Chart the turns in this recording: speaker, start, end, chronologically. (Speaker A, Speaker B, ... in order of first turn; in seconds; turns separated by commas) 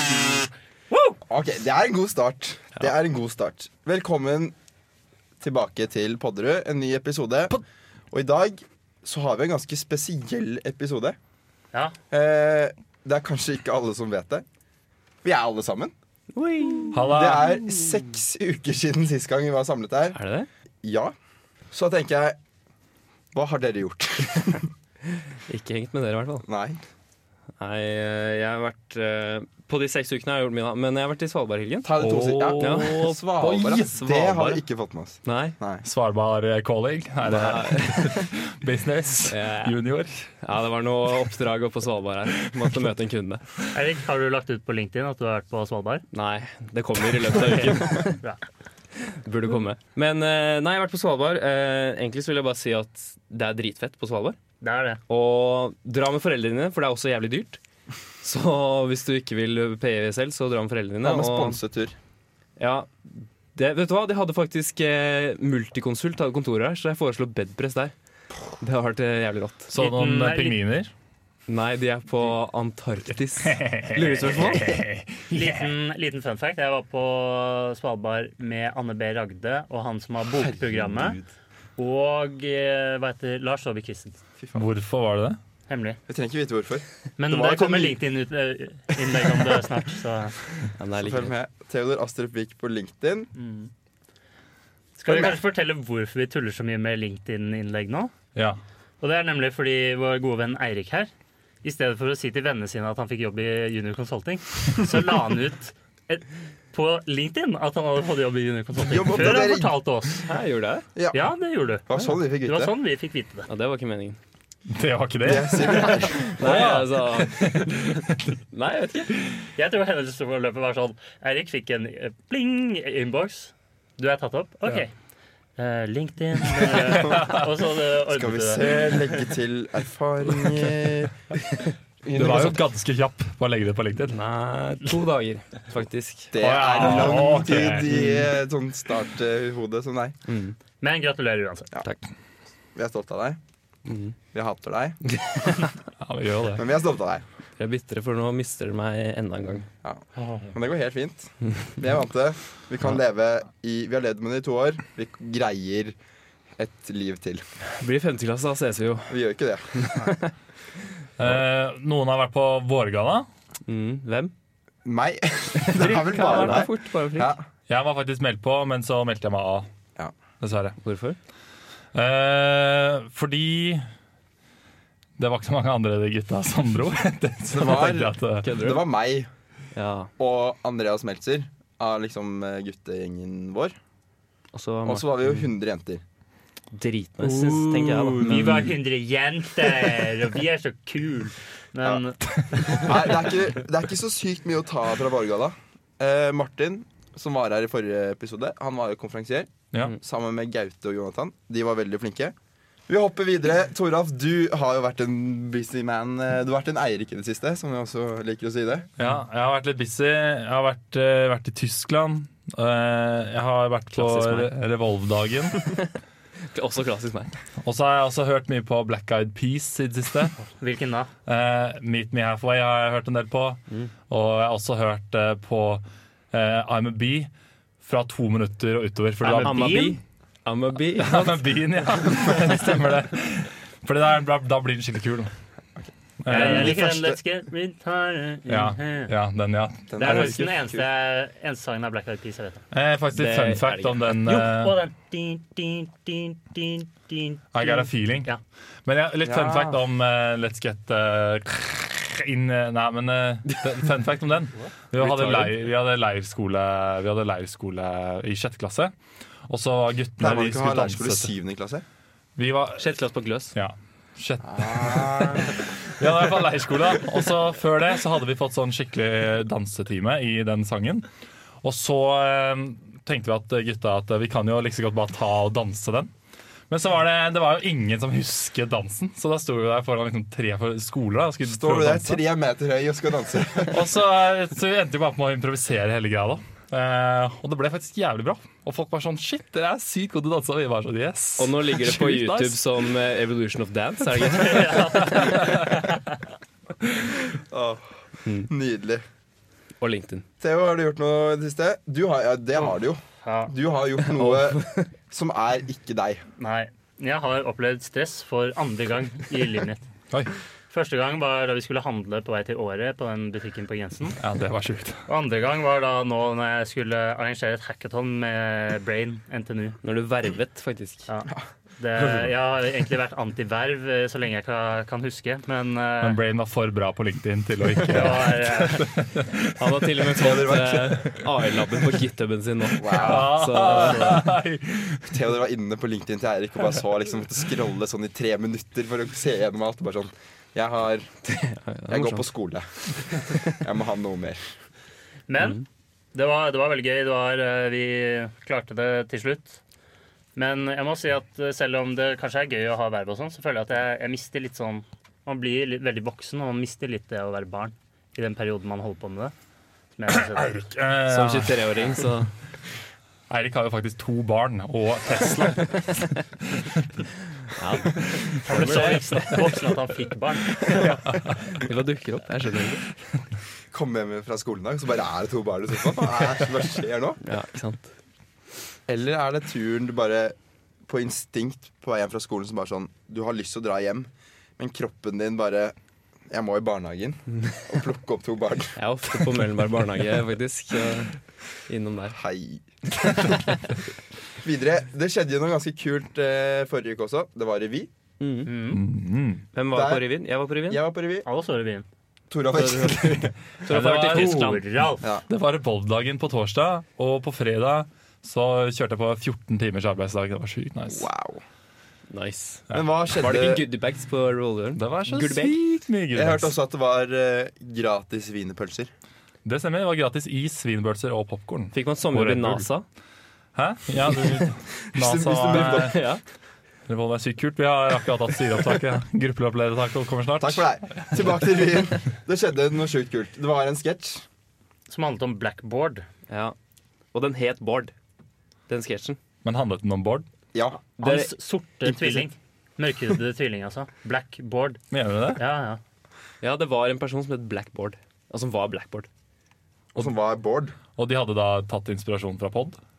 Speaker A: 1.2-4.5, Speaker A: 5.4-11.2, Speaker A: 12.1-14.4, Speaker A: 15.2-15.9, Speaker B: 16.3-17.1, Speaker C: 16.9-17.6, Speaker A: 17.1-20.2, Speaker B: 20.1-20.5, Speaker A: 20.8-21.1, Speaker A: 21.7-22.4, Speaker A: 23.3-24.7, Speaker B: 25.5-26.4, Speaker A: 26.4-26.8, Speaker B: 27.6-31.9, Speaker A: 31.8-35.8, Speaker C: 31.9-34.5, Speaker B: 32.6-33.2, Speaker B: 34.2-34.6, Speaker B: 35.2-35.5, Speaker C: 35.8-40.3, Speaker B: 37.2-38.3, Speaker B: 39.2-39.8, Speaker B: 40.4-43.4, Speaker D: 43.7-46.0, Speaker B: 46.1-48.2, Speaker D: 47.3-48.4, Speaker B: 49.0-54.4, Speaker D: 54.6-55.0, Speaker B: 55.1-57.6, Speaker B: 58.2-61.6, Speaker A: 61.0-62.0, Speaker B: 62.6-67.9, Speaker B: 68.6-69.7, Speaker C: 69.7-70.9, Speaker D: 69.7-70.6, Speaker B: 71.5-74.8, Speaker C: 73.4-75.7, Speaker D: 75.3-81.2, Speaker A: 80.3-81.3, Speaker D: 81.8-84.2, Speaker A: 84.4-84.7, Speaker C: 84.5-85.4, Speaker D: 85.7-86.0, Speaker A: 86.1-88.0, Speaker D: 87.2-90.4, Speaker B: 90.8-91.3, Speaker A: 91.0-93.3, Speaker D: 93.3-93.7, Speaker D: 95.0-98.1, Speaker A: 95.1-95.3, Speaker C: 98.3-98.6, Speaker D: 99.0-101.1, Speaker D: 101.6-110.3, Speaker A: 108.8-109.8, Speaker B: 110.3-110.9, Speaker A: 110.9-111.3, Speaker D: 111.1-113.5, Speaker A: 111.9-112.7, Speaker B: 113.5-114.2, Speaker C: 114.7-118.4, Speaker A: 115.2-116.3, Speaker B: 116.1-117.7, Speaker B: 118.5-119.1, Speaker D: 119.6-124.9, Speaker D: 125.6-129.2, Speaker C: 126.6-127.4, Speaker A: 128.1-131.1, Speaker A: 132.0-132.6, Speaker C: 132.1-134.2, Speaker B: 134.1-136.4, Speaker A: 136.3-140.2, Speaker C: 136.4-137.9, Speaker B: 137.9-138.3, Speaker B: 140.3-140.6, Speaker D: 140.8-141.7, Speaker A: 142.8-143.4, Speaker B: 143.9-144.2, Speaker A: 144.3-145.0, Speaker B: 145.1-145.7, Speaker C: 146.0-146.7, Speaker A: 146.6-147.2, Speaker B: 147.6-149.7, Speaker A: 149.8-155.9, Speaker D: 150.2-150.5, Speaker A: 156.6-157.4, Speaker B: 157.8-159.2, Speaker A: 159.1-160.1, Speaker B: 159.7-160.3, Speaker C: 161.2-163.3, Speaker B: 163.7-164.3, Speaker A: 164.8-167.5, Speaker B: 165.6-167.3, Speaker C: 165.8-166.7, Speaker C: 167.7-169.7, Speaker C: 170.4-170.8, Speaker B: 170.8-171.2, Speaker C: 171.9-173.9, Speaker C: 175.2-178.5, Speaker A: 177.5-179.3, Speaker B: 178.4-178.9, Speaker B: 179.7-180.1, Speaker A: 180.2-183.8, Speaker B: 184.5-185.5, Speaker A: 184.8-186.0, Speaker B: 186.7-188.7, Speaker C: 187.3-188.5, Speaker D: 188.1-193.1, Speaker A: 192.6-202.3, Speaker A: 202.9-208.9, Speaker C: 209.0-215.7, Speaker B: 213.9-214.5, Speaker B: 216.5-217.3, Speaker C: 217.6-220.4, Speaker D: 220.6-221.1, Speaker C: 221.2-227.3, Speaker C: 227.8-229.9, Speaker D: 229.2-230.0, Speaker B: 229.4-231.4, Speaker C: 231.0-235.3, Speaker C: 236.2-236.8, Speaker D: 236.3-239.1, Speaker A: 236.3-237.2, Speaker C: 238.5-240.4, Speaker A: 239.9-240.9, Speaker D: 240.0-242.6, Speaker C: 242.7-244.7, Speaker B: 243.1-244.1, Speaker D: 244.1-248.4, Speaker C: 247.5-248.3, Speaker C: 248.8-258.9, Speaker A: 249.2-249.8, Speaker B: 255.0-255.5, Speaker C: 259.5-261.3, Speaker A: 260.2-261.8, Speaker C: 262.4-262.9, Speaker B: 262.8-263.6, Speaker C: 263.5-271.1, Speaker A: 264.4-265.6, Speaker C: 271.6-276.1, Speaker C: 276.7-282.2, Speaker A: 281.4-283.9, Speaker C: 283.7-292.7, Speaker B: 291.4-295.1, Speaker D: 294.1-296.1, Speaker C: 294.7-295.8, Speaker A: 297.4-297.9, Speaker B: 298.2-298.5, Speaker A: 298.5-299.0, Speaker B: 299.8-300.2, Speaker A: 300.4-306.2, Speaker D: 303.2-303.5, Speaker B: 304.1-304.9, Speaker D: 306.4-309.8, Speaker D: 310.7-314.2, Speaker C: 314.2-315.0, Speaker D: 315.1-319.8, Speaker B: 319.8-321.1, Speaker D: 321.1-326.2, Speaker C: 322.0-322.3, Speaker C: 326.0-330.4, Speaker D: 327.8-328.9, Speaker B: 329.6-334.2, Speaker A: 330.2-331.1, Speaker A: 332.8-334.1, Speaker C: 332.9-335.2, Speaker A: 335.1-341.1, Speaker B: 341.2-342.2, Speaker A: 341.9-344.4, Speaker D: 345.3-349.6, Speaker D: 350.4-359.3, Speaker D: 359.9-360.7, Speaker C: 360.1-361.7, Speaker B: 361.1-362.3, Speaker C: 363.3-367.1, Speaker B: 367.5-369.4, Speaker C: 368.0-368.7, Speaker D: 368.4-371.0, Speaker C: 370.8-371.6, Speaker B: 371.3-372.9, Speaker A: 373.7-377.2, Speaker B: 377.2-377.9, Speaker A: 378.9-380.4, Speaker A: 380.9-385.8, Speaker A: 386.3-389.1, Speaker B: 388.8-391.2, Speaker B: 391.7-392.2, Speaker A: 392.1-393.5, Speaker B: 393.0-393.6, Speaker A: 394.4-397.9, Speaker B: 398.2-398.5, Speaker D: 398.4-398.8, Speaker C: 398.7-399.4, Speaker B: 399.5-400.8, Speaker A: 399.7-400.1, Speaker A: 400.7-401.2, Speaker D: 401.2-401.9, Speaker A: 402.3-403.4, Speaker B: 402.5-404.6, Speaker C: 403.7-404.6, Speaker D: 403.7-405.1, Speaker A: 405.0-405.2, Speaker C: 405.3-411.1, Speaker A: 410.9-411.4, Speaker B: 412.1-415.6, Speaker A: 412.7-413.7, Speaker C: 414.8-416.5, Speaker A: 416.1-418.9, Speaker C: 419.4-422.7, Speaker B: 421.7-422.9, Speaker C: 423.6-426.0, Speaker A: 424.9-426.0, Speaker B: 425.5-426.2, Speaker C: 426.9-431.1, Speaker A: 430.4-434.2, Speaker D: 434.9-436.1, Speaker B: 436.3-436.6, Speaker B: 437.1-437.9, Speaker B: 438.7-439.2, Speaker C: 439.4-440.3, Speaker A: 440.5-440.8, Speaker D: 441.0-444.8, Speaker B: 441.0-441.3, Speaker A: 441.9-442.2, Speaker C: 444.9-445.4, Speaker D: 445.4-445.8, Speaker B: 446.4-449.1, Speaker A: 449.9-450.8, Speaker C: 450.9-452.8